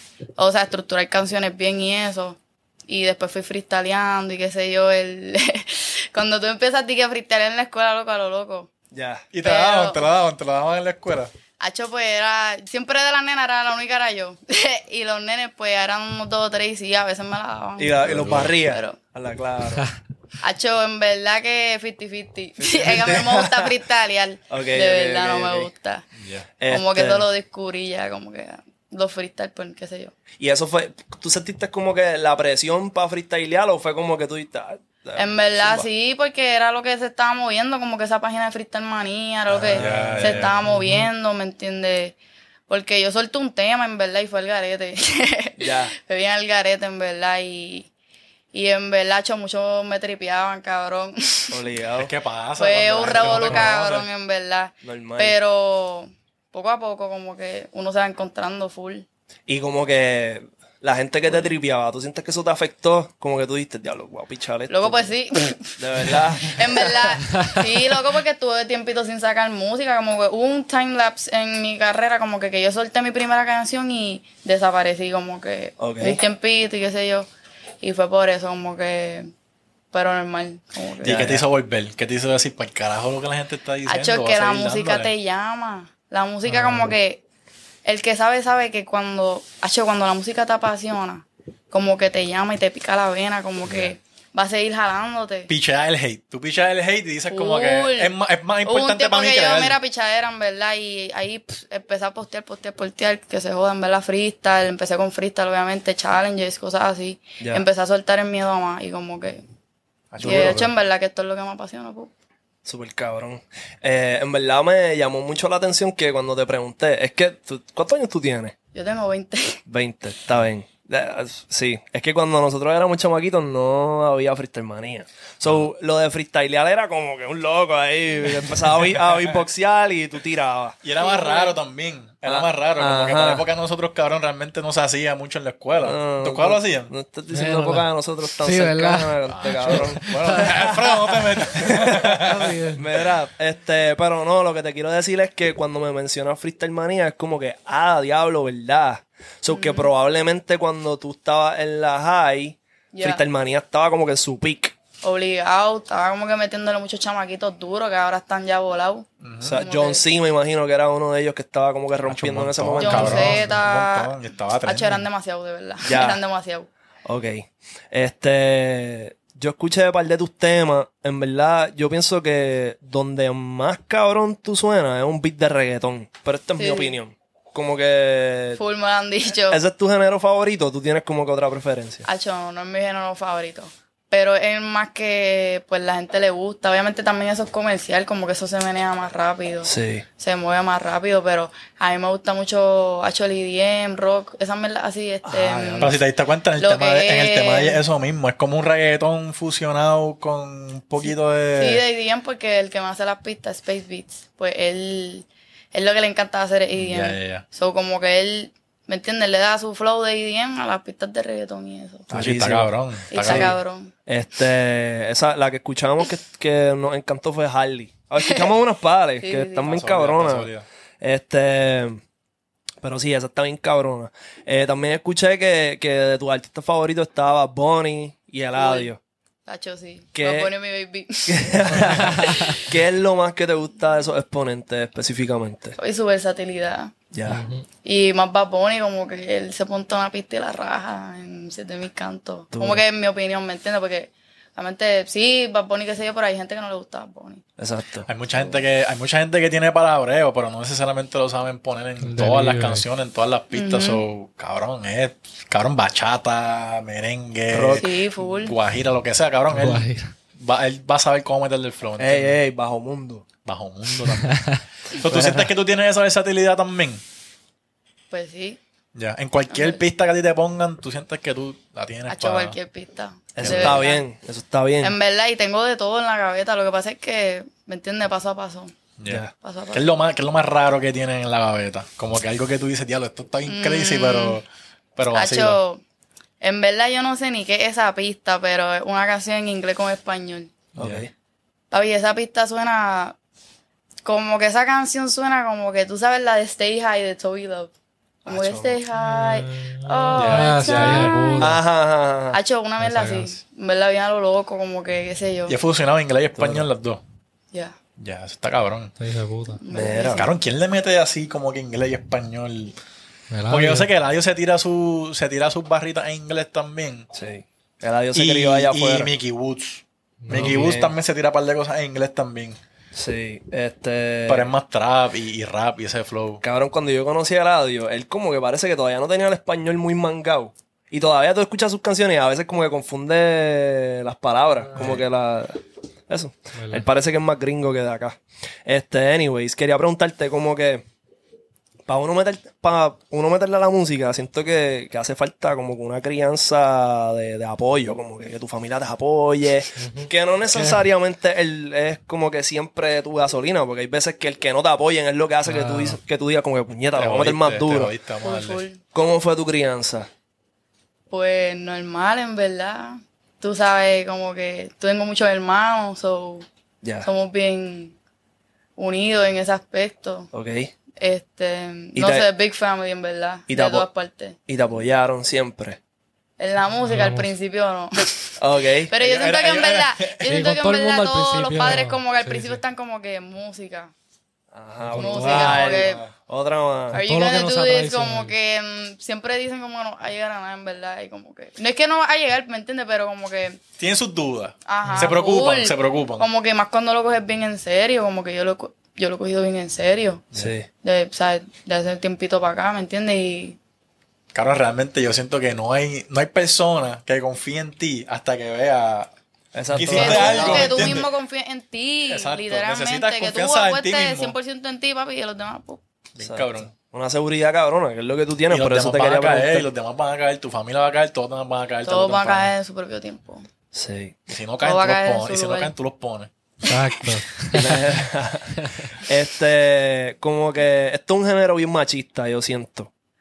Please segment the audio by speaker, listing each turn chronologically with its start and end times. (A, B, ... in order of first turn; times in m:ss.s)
0:00.4-0:08.7 A
0:08.9-0:09.2 B
0:09.3-0:11.3 C
0:09.4-0:10.0 A
0:11.6-0:19.0 A
0:17.8-0:19.9 B
0:18.0-0:18.5 C
0:20.4-0:26.0 A
0:22.6-0:23.7 B
0:24.5-0:25.7 B
0:26.2-0:26.5 C
0:26.6-0:27.3 B
0:26.7-0:30.1 A
0:30.4-0:35.8 B
0:35.2-0:42.2 A
0:39.5-0:40.5 B
0:39.7-0:40.5 C
0:40.6-0:41.1 D
0:42.7-0:47.9 A
0:45.6-0:45.9 B
0:48.5-0:51.6 A
0:51.5-0:52.1 B
0:52.0-0:54.1 C
0:52.6-0:59.0 A
0:53.0-0:53.7 B
0:54.8-0:55.4 B
0:59.5-1:05.1 B
1:04.7-1:17.3 A
1:05.7-1:07.1 B
1:15.8-1:16.2 B
1:17.8-1:19.3 A
1:19.9-1:21.2 A
1:21.0-1:25.1 C
1:21.0-1:21.4 B
1:23.8-1:27.2 A
1:26.5-1:26.9 D
1:27.8-1:35.5 A
1:33.7-1:33.9 C
1:35.5-1:39.8 C
1:37.3-1:38.1 A
1:38.6-1:49.4 A
1:50.1-1:50.7 C
1:50.2-1:52.1 A
1:50.2-1:50.6 B
1:52.6-1:58.5 B
1:58.7-1:59.6 A
1:59.7-2:10.8 B
2:10.8-2:16.9 C
2:11.0-2:11.6 A
2:12.2-2:13.4 B
2:15.8-2:34.7 B
2:17.3-2:17.9 D
2:18.4-2:20.7 D
2:19.2-2:22.6 C
2:22.2-2:22.8 D
2:29.5-2:29.9 A
2:32.9-2:33.2 A
2:35.0-2:40.0 A
2:39.2-2:39.6 C
2:39.4-2:43.4 B
2:42.1-2:45.0 C
2:42.8-2:44.1 A
2:44.6-2:46.7 A
2:45.8-2:46.2 B
2:47.0-2:58.6 B
2:56.6-2:57.0 A
2:58.6-2:59.6 A
2:59.5-3:02.0 B
3:02.0-3:16.0 A
3:09.6-3:10.0 B
3:15.2-3:16.0 B
3:15.8-3:21.8 C
3:16.6-3:17.8 A
3:21.6-3:32.1 A
3:26.8-3:27.4 C
3:32.1-3:42.0 B
3:32.1-3:33.6 C
3:33.1-3:33.9 A
3:38.2-3:38.5 A
3:39.2-3:39.7 A
3:39.6-3:40.6 C
3:42.8-3:49.0 B
3:48.6-3:48.9 A
3:49.5-3:52.6 A
3:50.1-3:50.5 B
3:51.3-3:55.8 B
3:51.9-3:52.5 D
3:55.8-3:56.9 A
3:57.1-3:57.4 B
3:57.3-3:57.6 D
3:57.8-4:07.4 A
4:02.5-4:02.8 B
4:07.6-4:08.1 B
4:08.1-4:19.8 C
4:08.4-4:08.6 A
4:12.0-4:12.8 D
4:13.5-4:14.0 A
4:17.5-4:17.8 B
4:17.8-4:18.5 A
4:19.5-4:20.1 D
4:20.4-4:22.4 C
4:22.0-4:23.2 B
4:23.4-4:27.0 C
4:24.0-4:24.6 D
4:25.0-4:25.5 B
4:28.1-4:28.6 A
4:28.9-4:32.6 C
4:29.5-4:29.8 A
4:32.1-4:34.0 A
4:33.4-4:35.0 B
4:33.4-4:33.9 C
4:34.8-4:38.7 A
4:39.0-4:45.6 C
4:39.0-4:39.3 B
4:39.4-4:39.9 A
4:43.5-4:44.4 A
4:45.1-4:45.8 A
4:46.4-4:50.5 A
4:50.8-4:51.1 B
4:50.8-4:51.0 C
4:51.7-4:53.2 A
4:54.0-4:57.7 A
4:58.2-5:01.6 A
4:58.2-4:58.8 B
4:58.9-5:01.5 D
5:00.2-5:01.1 C
5:01.4-5:02.4 B
5:02.3-5:05.5 A
5:02.8-5:03.3 D
5:05.5-5:07.0 C
5:06.4-5:06.7 B
5:08.0-5:08.9 C
5:09.0-5:09.6 D
5:09.6-5:10.3 A
5:09.7-5:10.3 B
5:10.0-5:12.7 C
5:13.3-5:13.9 D
5:13.5-5:17.1 C
5:17.1-5:19.1 B
5:18.1-5:22.6 C
5:20.2-5:20.8 D
5:20.3-5:20.9 B
5:22.9-5:24.5 B
5:24.3-5:26.4 C
5:26.4-5:40.8 B
5:34.8-5:35.0 C
5:36.6-5:36.8 D
5:41.9-5:57.9 B
5:49.8-5:50.1 D
5:55.4-5:56.0 D
5:56.9-5:58.6 C
5:58.2-5:58.8 A
5:58.9-6:00.1 B
6:01.1-6:06.4 A
6:06.8-6:07.1 B
6:07.0-6:08.0 A
6:08.8-6:10.3 A
6:10.3-6:10.7 B
6:11.0-6:14.4 A
6:11.9-6:12.3 B
6:13.5-6:13.9 B
6:14.5-6:15.8 B
6:16.4-6:18.3 A
6:16.8-6:17.3 D
6:18.4-6:18.9 B
6:18.9-6:23.9 A
6:19.0-6:20.3 C
6:20.2-6:22.6 D
6:24.5-6:27.0 B
6:24.9-6:25.6 D
6:24.9-6:26.0 A
6:25.4-6:26.1 C
6:26.9-6:28.3 D
6:26.9-6:33.6 A
6:33.8-6:36.3 C
6:34.6-6:40.2 A
6:34.8-6:35.1 D
6:40.3-6:40.7 B
6:40.8-6:43.6 A
6:44.3-6:49.1 C
6:49.5-6:51.0 B
6:49.7-6:51.1 C
6:49.8-6:55.8 A
6:52.1-6:54.3 C
6:56.1-6:56.7 C
6:56.2-6:59.7 B
6:58.5-7:02.5 C
7:01.8-7:03.4 A
7:03.7-7:04.3 B
7:04.3-7:06.3 C
7:04.6-7:05.7 A
7:06.7-7:07.9 D
7:07.5-7:12.9 B
7:08.6-7:08.9 D